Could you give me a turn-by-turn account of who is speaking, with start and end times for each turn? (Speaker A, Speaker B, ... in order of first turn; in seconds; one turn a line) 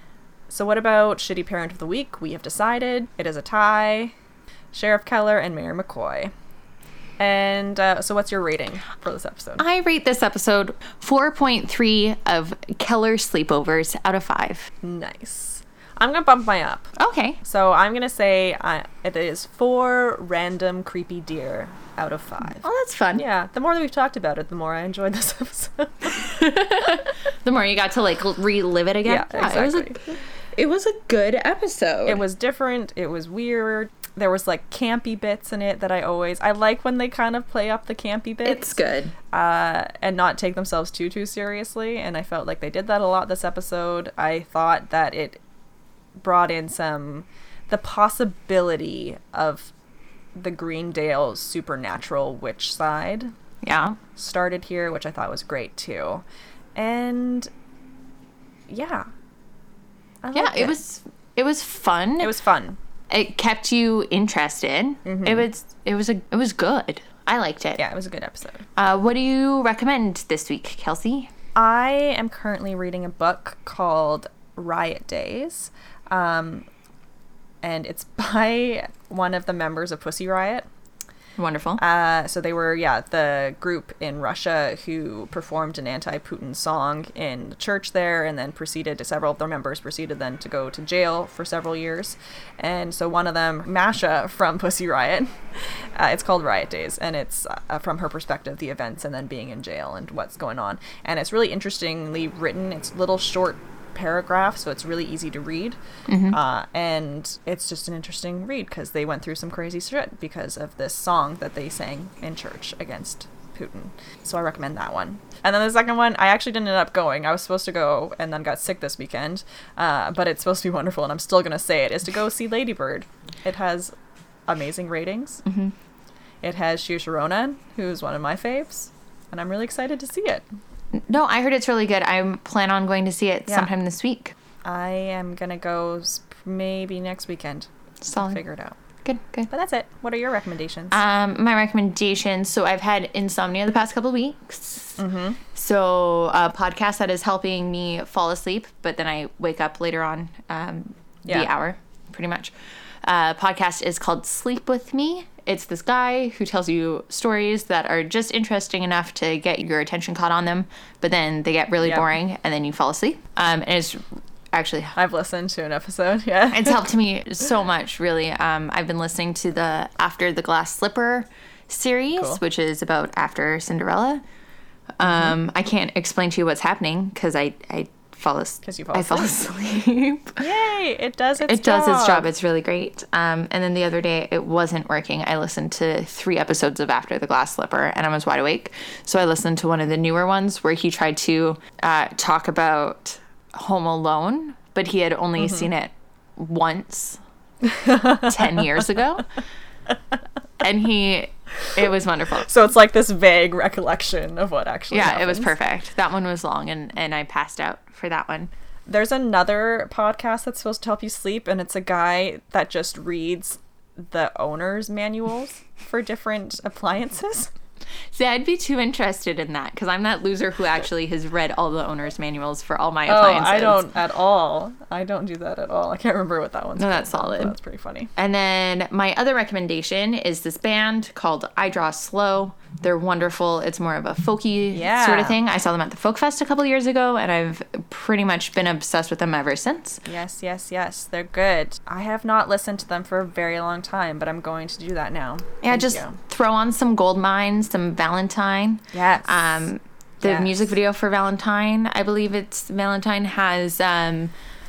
Speaker A: 0.5-4.1
Speaker A: 4.7-6.3
Speaker A: 7.2-9.6
Speaker B: 9.6-14.7
Speaker A: 14.8-26.2
Speaker B: 17.0-17.4
Speaker B: 22.6-23.2
Speaker B: 26.1-32.2
Speaker A: 29.0-30.0
Speaker A: 32.0-38.8
Speaker B: 38.4-39.1
Speaker A: 39.3-45.4
Speaker A: 46.2-49.7
Speaker A: 50.4-53.3
Speaker B: 53.6-54.0
Speaker A: 54.1-56.2
Speaker A: 56.8-57.5
Speaker A: 58.7-59.0
Speaker A: 60.2-60.8
Speaker B: 60.3-62.3
Speaker A: 62.2-62.8
Speaker B: 63.1-67.8
Speaker A: 65.0-65.5
Speaker A: 67.8-68.7
Speaker B: 68.8-71.3
Speaker A: 71.5-76.7
Speaker A: 77.6-80.7
Speaker B: 81.4-81.8
Speaker A: 81.8-95.3
Speaker A: 96.0-123.9
Speaker B: 106.1-106.4
Speaker A: 124.5-125.4
Speaker B: 125.4-125.7
Speaker A: 126.4-130.4
Speaker B: 130.9-134.3
Speaker A: 134.6-138.8
Speaker B: 138.1-138.4
Speaker B: 139.0-139.5
Speaker A: 139.5-141.0
Speaker B: 140.9-145.0
Speaker A: 145.0-145.4
Speaker B: 145.5-165.0
Speaker A: 151.2-151.5
Speaker A: 161.8-162.1
Speaker A: 164.9-166.8
Speaker B: 166.5-174.2
Speaker A: 172.1-172.4
Speaker B: 175.0-180.4
Speaker A: 175.0-175.3
Speaker A: 178.6-179.3
Speaker A: 180.4-182.3
Speaker B: 181.5-197.2
Speaker A: 197.7-198.3
Speaker B: 198.1-199.3
Speaker B: 200.6-202.5
Speaker A: 202.4-205.5
Speaker B: 204.9-208.5
Speaker A: 208.9-217.5
Speaker B: 218.1-223.8
Speaker A: 223.1-228.1
Speaker B: 226.8-227.5
Speaker B: 228.2-240.0
Speaker A: 234.7-235.4
Speaker A: 240.1-246.2
Speaker B: 245.6-254.3
Speaker A: 248.9-249.7
Speaker A: 250.2-250.7